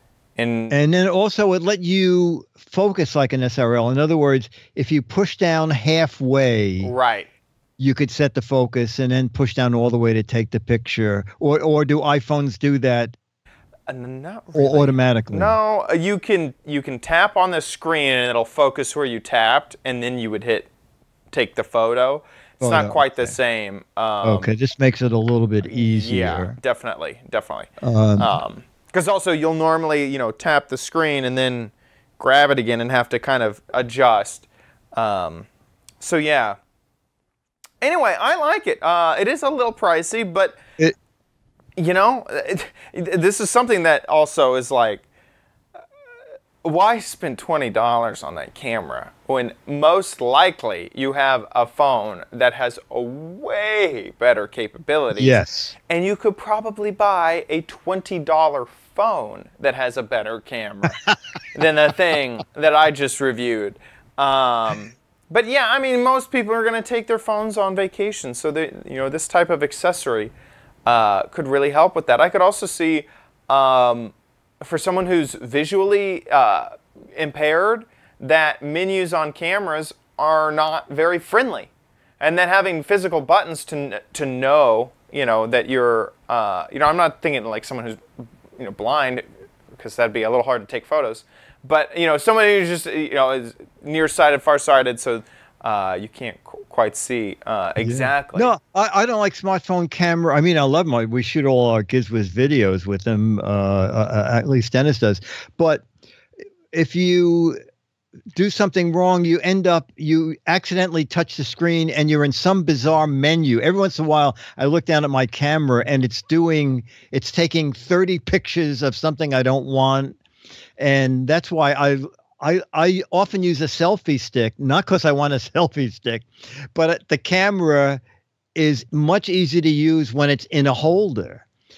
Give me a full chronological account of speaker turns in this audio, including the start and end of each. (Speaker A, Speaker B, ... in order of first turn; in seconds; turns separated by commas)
Speaker A: 0.4-0.8, Speaker B: 0.7-6.9, Speaker A: 6.8-7.3, Speaker B: 7.8-13.2, Speaker A: 13.9-20.7, Speaker B: 14.5-15.6, Speaker A: 21.3-24.5, Speaker B: 22.6-23.4, Speaker B: 24.2-26.6, Speaker A: 25.6-35.5, Speaker B: 27.8-28.4, Speaker A: 36.0-36.6, Speaker A: 37.8-40.6, Speaker A: 41.8-45.0, Speaker A: 46.6-61.0, Speaker B: 55.1-55.8, Speaker A: 61.5-70.3, Speaker A: 70.9-88.0, Speaker A: 88.6-98.5, Speaker B: 97.8-105.8, Speaker B: 106.7-107.6, Speaker B: 108.3-120.2, Speaker B: 120.8-128.0, Speaker B: 128.6-131.4